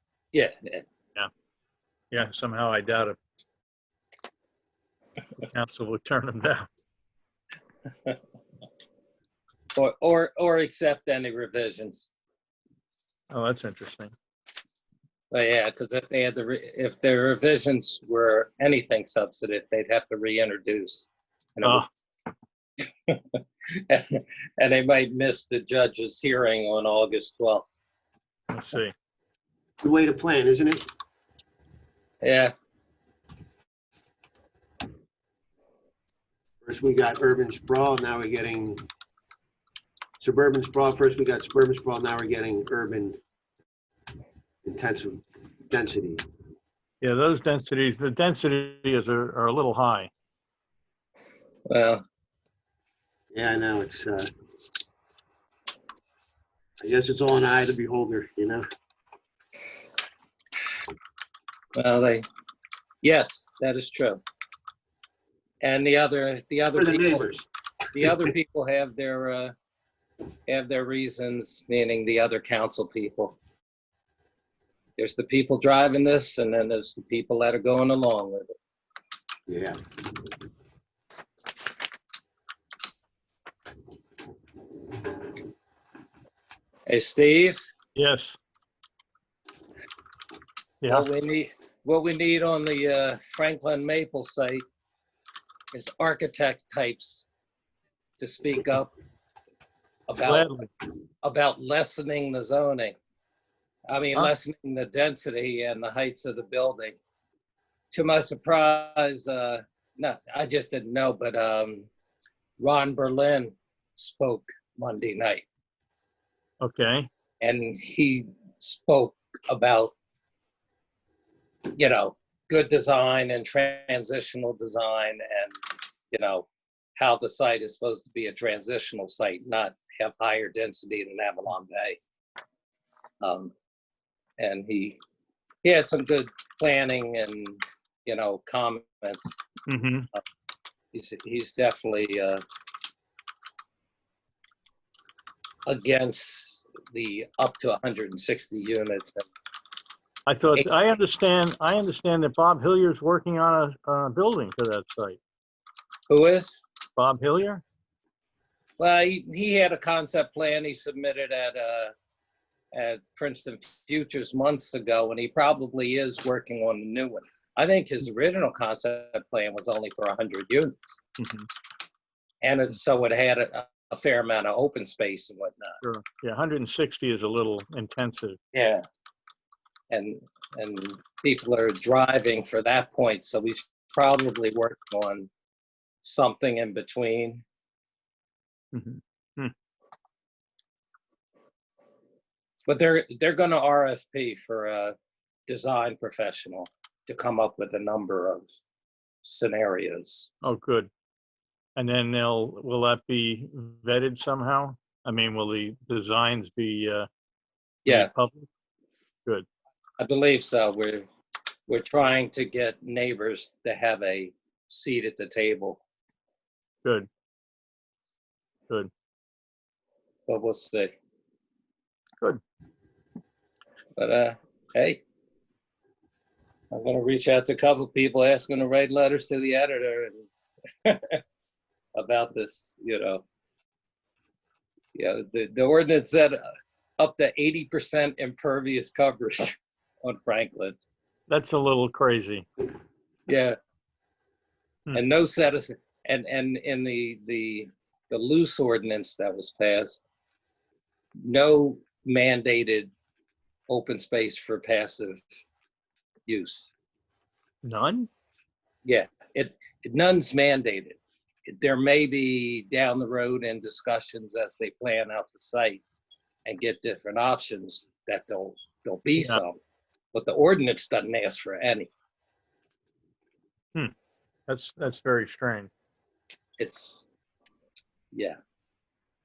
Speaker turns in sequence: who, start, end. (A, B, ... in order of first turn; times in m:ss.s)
0:00.3-0:00.8 A
0:02.1-0:03.2 B
0:05.5-0:06.7 B
0:09.8-0:12.1 A
0:13.3-0:14.1 B
0:15.3-0:21.8 A
0:23.1-0:27.8 A
0:28.5-0:28.9 B
0:29.8-0:30.8 C
0:32.2-0:32.5 A
0:36.6-0:38.8 C
0:40.2-0:43.2 C
0:44.6-0:46.2 C
0:47.0-0:50.1 B
0:51.7-0:52.0 A
0:53.3-0:54.3 C
0:56.8-0:58.6 C
1:01.8-1:02.3 A
1:03.0-1:04.2 A
1:05.6-1:07.3 A
1:06.8-1:07.5 C
1:07.9-1:09.5 A
1:10.5-1:13.4 A
1:15.0-1:18.5 A
1:19.5-1:19.8 C
1:26.9-1:27.6 A
1:28.0-1:28.4 B
1:30.9-1:34.6 A
1:35.7-1:37.2 A
1:38.2-1:38.9 A
1:40.1-1:40.5 A
1:40.2-1:40.7 B
1:41.2-1:42.9 A
1:43.9-1:47.0 A
1:47.9-1:51.9 A
1:52.6-1:55.4 A
1:56.6-1:57.1 B
1:57.4-1:59.9 A
2:01.8-2:05.6 A
2:06.1-2:12.0 A
2:13.2-2:13.5 A
2:14.4-2:15.0 A
2:15.6-2:19.4 A
2:19.7-2:20.1 B
2:20.9-2:22.4 A
2:25.6-2:29.2 A
2:30.3-2:35.2 B
2:36.1-2:36.6 A
2:37.0-2:37.6 B
2:38.8-2:41.9 A
2:42.7-2:51.0 A
2:51.2-2:51.5 B
2:52.4-2:55.8 A
2:55.8-2:58.4 B
2:58.5-2:58.8 A
2:59.9-3:05.3 A
3:06.0-3:07.4 A
3:08.7-3:09.5 B
3:12.7-3:14.9 A
3:15.5-3:18.5 A
3:19.2-3:20.3 A
3:20.4-3:20.9 B
3:21.8-3:27.1 B
3:27.8-3:28.1 A
3:27.8-3:28.5 B
3:30.0-3:31.1 A
3:31.7-3:35.8 A
3:40.3-3:40.9 A
3:44.0-3:45.0 A
3:46.7-3:50.2 A
3:50.8-3:51.2 A
3:51.9-3:53.2 A
3:54.9-3:56.4 A
3:57.0-4:00.8 A
4:01.3-4:02.4 B
4:03.3-4:03.6 A
4:04.9-4:10.0 A
4:11.2-4:12.9 A
4:13.7-4:15.2 A
4:16.3-4:16.7 A
4:17.6-4:18.1 B
4:18.8-4:25.8 A
4:26.4-4:29.6 A
4:29.2-4:29.4 B
4:30.1-4:31.9 A
4:34.5-4:35.7 B
4:36.6-4:37.0 A